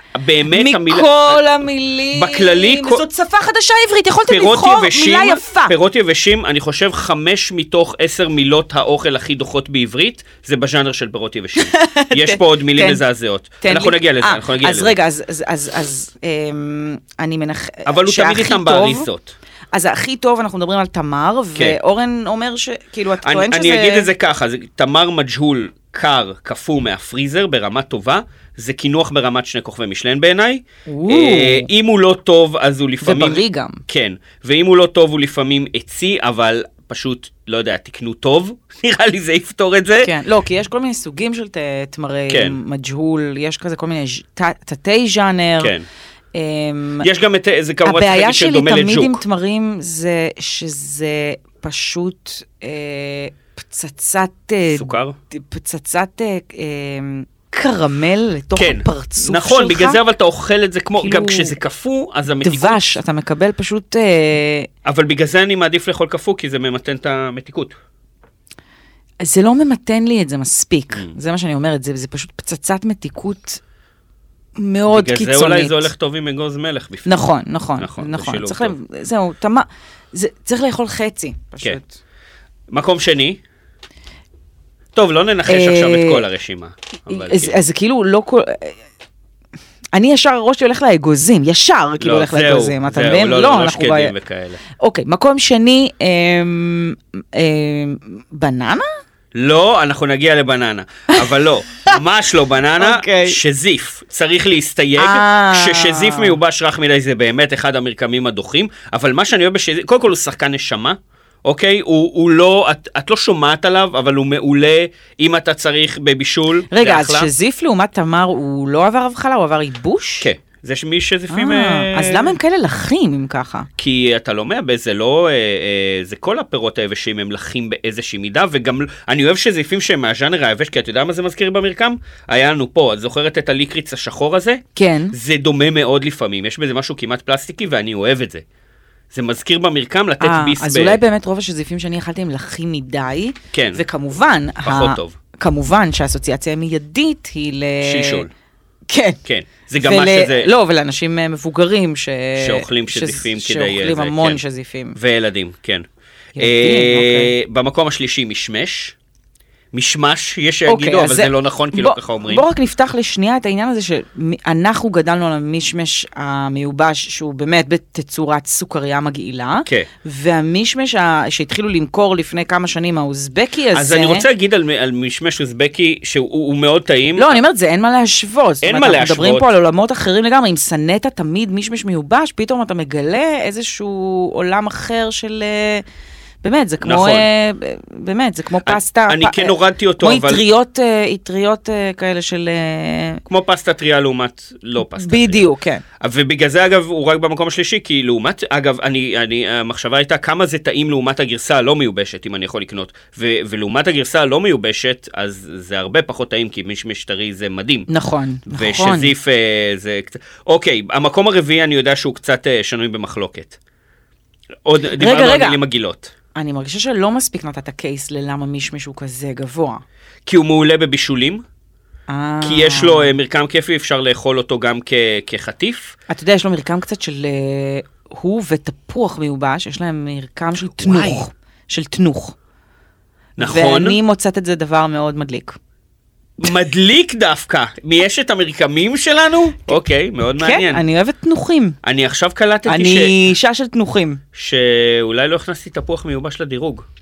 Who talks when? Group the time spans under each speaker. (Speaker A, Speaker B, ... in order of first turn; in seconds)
Speaker A: 0.1-1.4, 2.1-3.0, 4.3-15.0, 17.9-19.3, 23.2-40.1, 42.3-42.6, 45.6-45.9, 47.0-49.2, 54.7-55.2, 58.6-63.0, 64.8-67.8, 74.9-77.3, 77.8-78.8, 82.7-83.4, 85.0-87.6, 92.0-94.6, 99.3-117.3, 120.2-122.3, 123.8-138.4, 139.1-141.0, 143.5-143.8, 144.6-145.2, 147.8-148.3, 149.2-150.5, 152.4-154.4, 155.0-155.9, 156.4-158.9, 159.7-162.4, 173.7-177.4, 178.6-179.5, 186.8-187.3, 188.6-190.4, 193.3-195.5, 196.0-207.9, 208.5-213.6, 214.7-216.1, 220.3-221.4, 222.4-226.0, 230.7-231.2, 233.4-234.0, 236.4-240.8, 241.8-243.3, 244.3-246.9
Speaker B: 0.5-5.7, 11.6-13.0, 13.6-19.1, 19.7-24.1, 30.9-31.7, 33.0-33.8, 40.0-45.7, 46.4-47.1, 47.9-60.0, 61.0-61.6, 62.4-64.7, 69.2-73.6, 74.6-75.9, 77.1-82.0, 85.5-86.2, 87.1-88.8, 89.9-94.1, 94.8-98.9, 102.8-103.4, 105.0-106.4, 116.7-120.3, 121.3-123.7, 134.8-135.2, 140.2-148.3, 148.9-149.2, 149.8-155.0, 156.3-157.3, 160.7-174.2, 177.2-185.8, 186.4-193.2, 194.8-195.8, 207.9-209.1, 215.0-215.6, 216.3-219.8, 222.1-223.1, 226.1-232.4, 233.4-235.6, 240.4-241.8, 242.7-244.2